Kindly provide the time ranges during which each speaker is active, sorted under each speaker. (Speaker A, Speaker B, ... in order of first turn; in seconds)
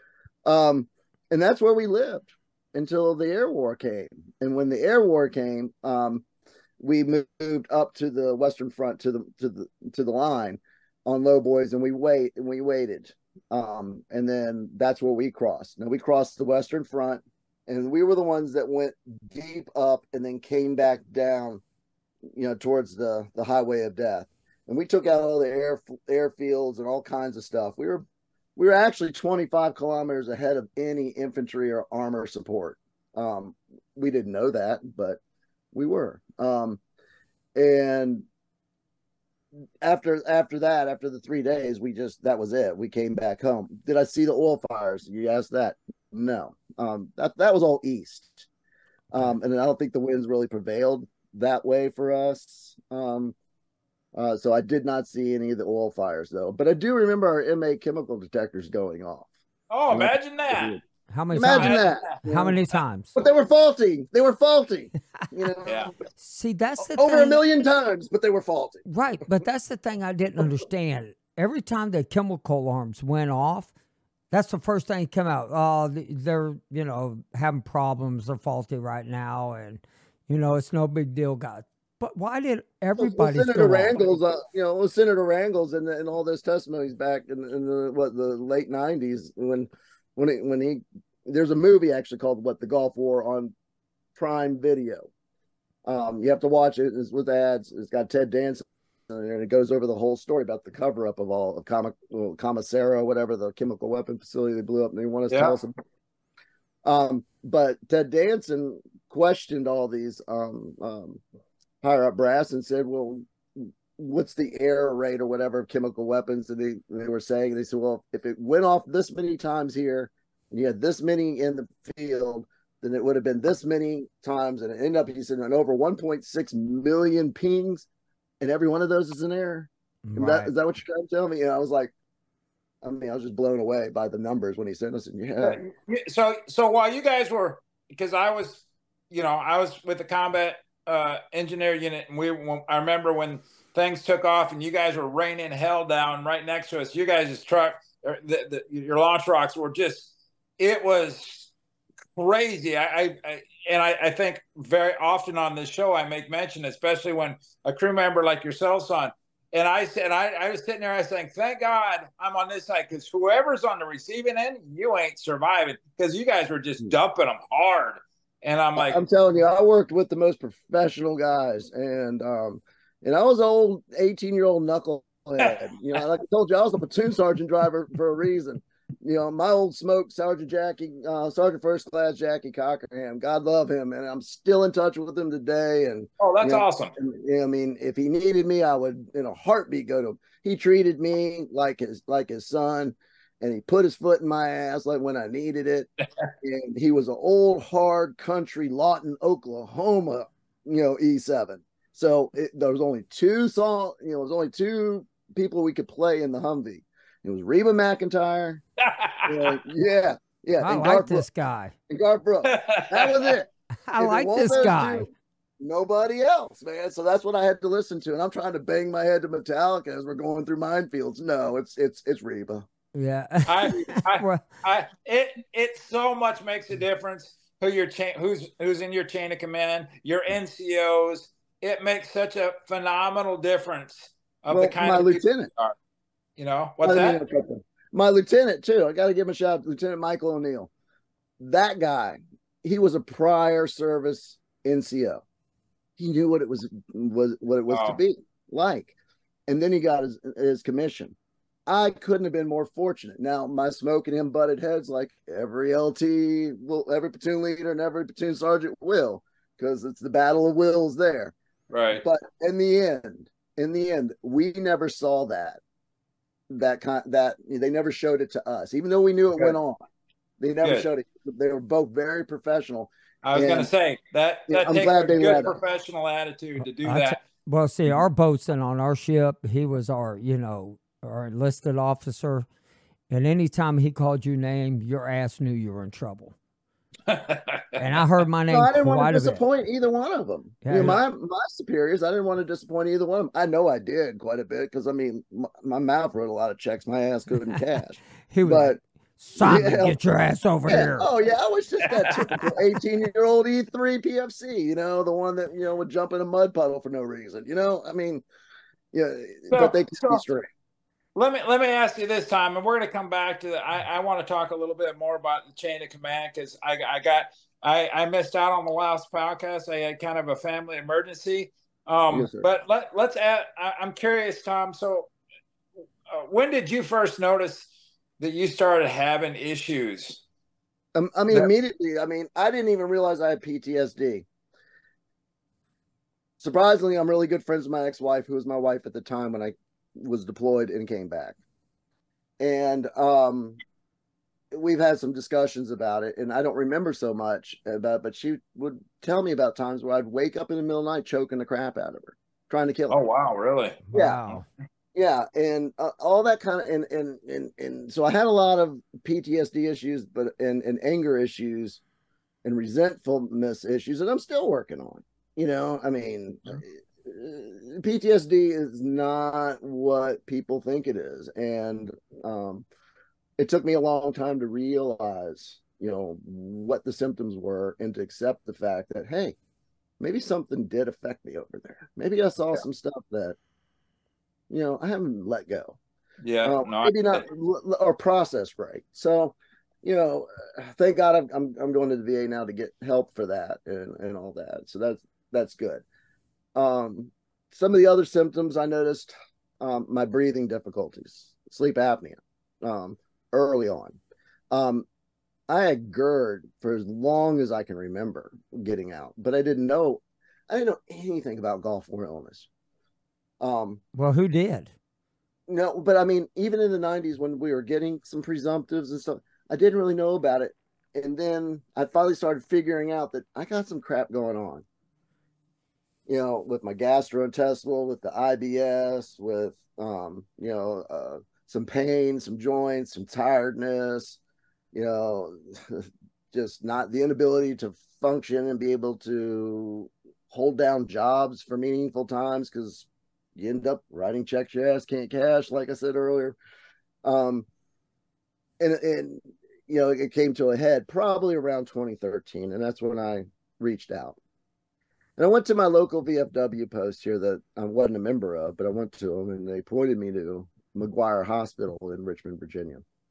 Speaker A: 0.5-6.2, 6.8-21.6, 22.3-28.0, 28.6-35.2, 35.7-36.8, 37.5-38.2, 39.8-48.5, 49.1-53.3, 54.1-59.3, 59.9-62.6, 63.1-65.9, 66.8-68.8, 83.0-93.5, 94.1-95.1, 95.8-105.7, 106.8-111.2, 111.8-127.9, 128.4-131.9, 132.8-135.6, 168.8-195.9, 196.4-208.6, 209.2-211.2, 211.9-215.1, 215.6-222.7, 234.5-235.5, 236.8-240.7, 241.4-245.2, 246.0-248.9, 249.5-251.2, 251.7-261.3, 261.9-265.6, 266.5-269.8, 270.4-273.7, 274.5-275.6, 288.5-298.8, 299.4-300.0, 300.6-308.2, 308.9-310.5, 322.1-322.5, 330.9-334.2, 336.4-341.4, 342.4-343.6, 344.5-353.0, 353.9-354.2, 354.9-361.8, 362.4-372.6, 373.4-379.4, 380.0-383.4, 384.5-385.8, 386.4-395.8, 396.6-404.0, 404.5-404.9, 405.5-412.5, 413.4-413.8, 415.5-424.6, 426.1-434.2, 434.7-446.4, 447.0-447.4, 448.6-454.2, 455.2-462.8
Speaker B: 59.7-60.8, 61.5-62.1, 65.6-65.9, 105.3-105.6, 135.4-151.5, 152.2-169.0, 186.2-186.9, 208.8-209.6, 212.4-213.3, 223.5-235.7, 236.4-237.2, 247.7-248.0, 261.7-262.0, 273.2-277.2, 287.1-288.0, 301.8-302.4, 309.5-310.2, 311.1-325.1, 326.1-330.2, 352.9-354.4, 386.2-387.2
Speaker C: 61.1-63.1, 66.2-67.4, 68.9-73.7, 74.3-84.0, 130.1-130.5, 210.6-211.7, 213.9-215.1, 222.9-224.4, 276.6-282.4, 283.1-286.3, 287.8-289.4, 290.6-291.0, 298.3-301.1, 353.9-354.4, 413.9-414.7